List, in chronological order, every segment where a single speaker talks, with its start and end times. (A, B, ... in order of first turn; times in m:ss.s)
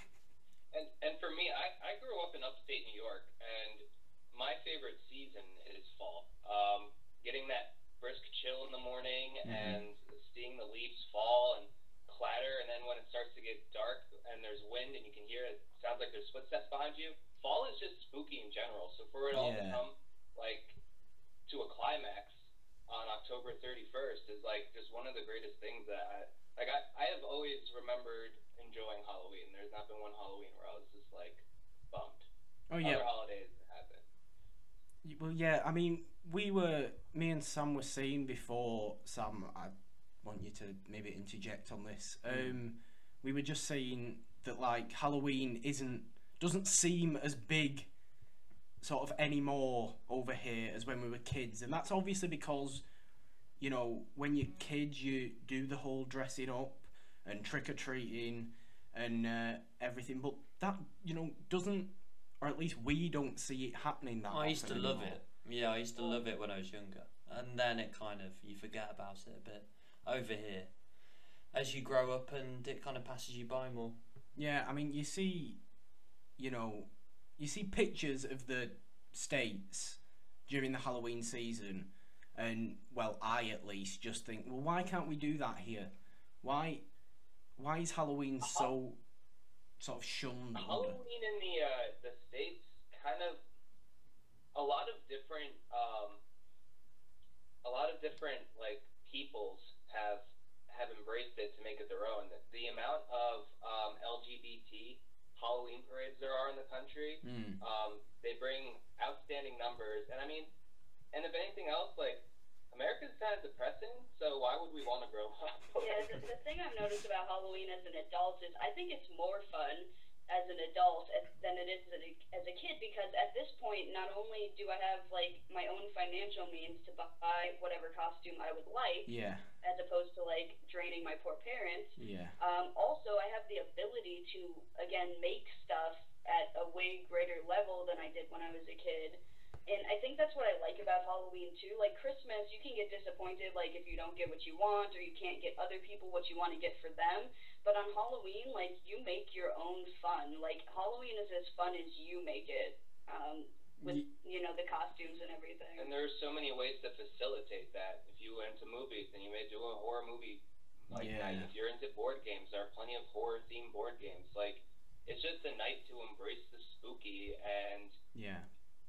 0:00.7-0:20.8 A
0:09.4-0:09.8 B
0:19.3-0:19.8 B
0:21.5-0:22.3 A
0:22.9-0:32.3 A
0:32.7-0:33.1 B
0:32.8-0:34.0 A
0:35.0-0:47.9 B
0:42.3-0:42.5 C
0:48.8-0:52.8 B
0:53.6-1:05.2 B
1:04.3-1:10.7 C
1:11.5-1:14.0 C
1:14.4-1:15.6 B
1:16.4-1:26.8 B
1:27.6-1:29.0 B
1:28.4-1:28.7 A
1:29.8-1:31.0 B
1:30.5-1:33.4 A
1:34.5-1:36.2 A
1:37.6-1:50.5 A
1:47.2-1:47.6 B
1:51.1-1:56.2 A
1:55.8-2:35.9 D
2:09.0-2:09.4 B
2:12.0-2:12.4 B
2:35.8-2:47.9 A
2:40.9-2:41.5 B
2:48.1-2:48.5 B